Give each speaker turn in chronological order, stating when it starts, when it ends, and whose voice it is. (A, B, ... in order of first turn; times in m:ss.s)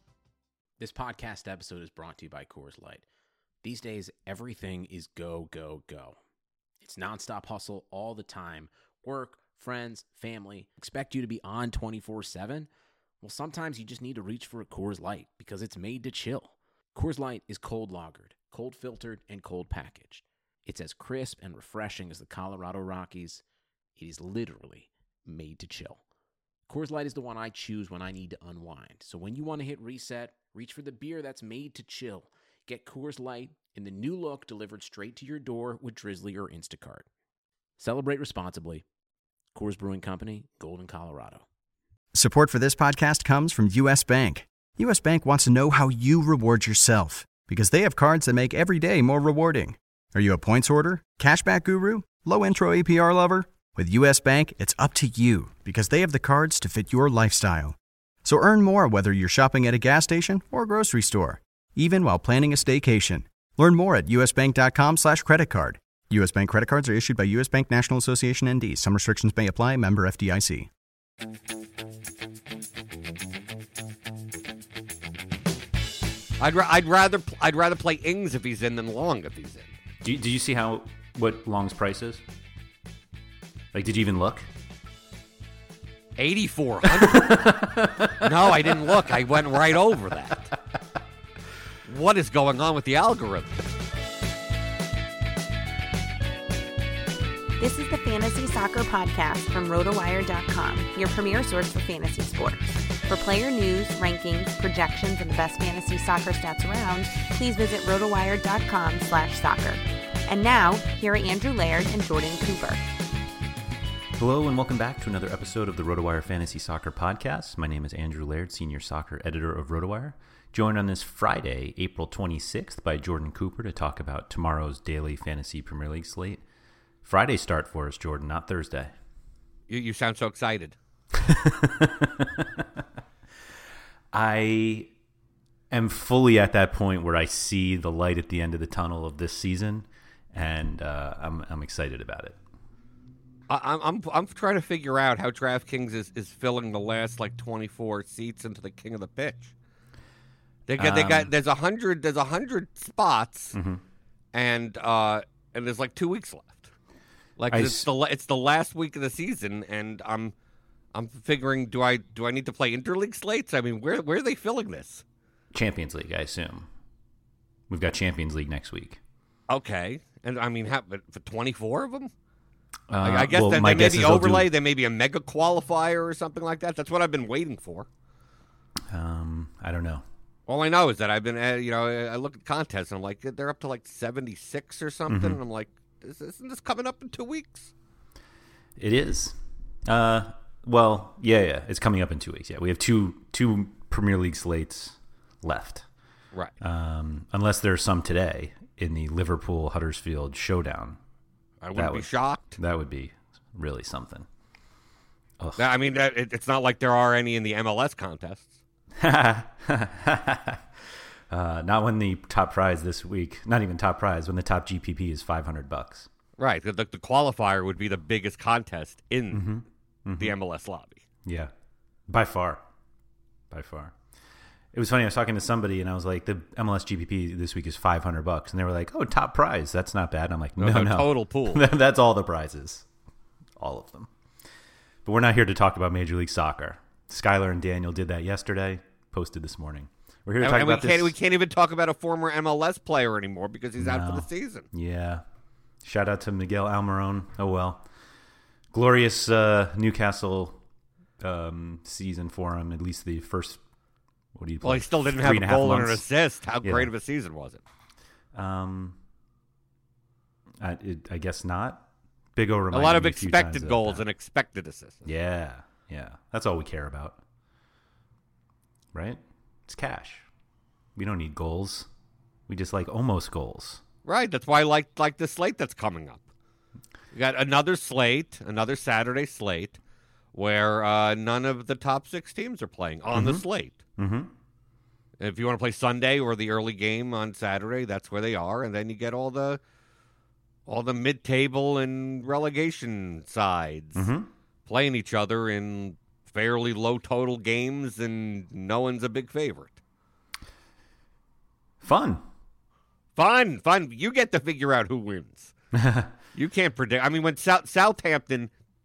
0:00.8-0:03.0 A
0:03.6-0:06.2 A
0:06.8-0:12.7 A
0:13.2-0:23.4 A
0:24.0-0:26.0 A
0:26.7-0:37.0 A
0:37.8-0:38.8 A
0:39.5-0:41.4 A
0:42.1-1:10.7 B
1:16.4-1:19.7 C
1:20.0-1:22.2 D
1:23.7-1:24.5 D
1:26.2-1:30.5 C
1:26.8-1:29.0 D
1:31.8-1:33.6 C
1:37.6-1:52.8 E
1:54.2-2:06.4 D
2:07.0-2:08.9 D
2:09.7-2:10.8 C
2:11.1-2:12.6 D
2:14.1-2:14.9 D
2:15.7-2:22.4 D
2:23.5-2:29.5 C
2:30.7-2:33.6 C
2:30.8-2:31.3 D
2:33.5-2:33.8 D
2:34.3-2:36.7 C
2:37.4-2:40.3 C
2:37.5-2:37.9 D
2:40.9-2:45.0 C
2:45.5-2:46.7 D
2:47.7-2:49.0 D
2:49.5-2:52.1 C
2:52.9-2:54.5 D
2:53.0-2:57.9 C
2:58.9-3:00.0 D
3:00.5-3:07.7 C
3:05.1-3:05.4 D
3:08.8-3:15.8 D
3:16.6-3:21.0 D
3:21.6-3:22.6 C
3:21.7-3:24.3 D
3:25.6-3:28.5 C
3:29.0-3:30.6 D
3:31.3-3:36.1 D
3:36.4-3:39.5 C
3:39.3-3:40.3 D
3:40.2-3:41.0 C
3:41.2-3:41.5 D
3:42.1-3:42.6 D
3:43.5-3:43.9 D
3:44.7-3:52.8 D
3:50.6-3:51.6 C
3:53.6-3:54.1 D
3:55.0-4:01.1 D
4:00.4-4:04.6 C
4:03.8-4:05.2 D
4:05.8-4:07.8 D
4:08.7-4:10.6 D
4:11.2-4:13.6 D
4:14.3-4:16.0 D
4:14.6-4:17.6 C
4:16.6-4:16.9 D
4:18.3-4:19.0 D
4:20.6-4:24.0 D
4:22.7-4:25.1 C
4:25.0-4:27.2 D
4:28.9-4:30.2 D
4:31.0-4:31.9 D
4:32.5-4:33.8 D
4:34.0-4:36.2 C
4:37.1-4:39.8 C
4:40.3-4:43.8 C
4:43.1-4:43.4 D
4:44.0-4:44.3 D
4:45.2-4:49.6 C
4:50.7-4:54.1 C
4:54.0-4:54.3 D
4:54.6-4:59.8 C
5:01.8-5:02.2 D
5:03.2-5:05.5 C
5:05.7-5:06.1 D
5:06.3-5:08.5 C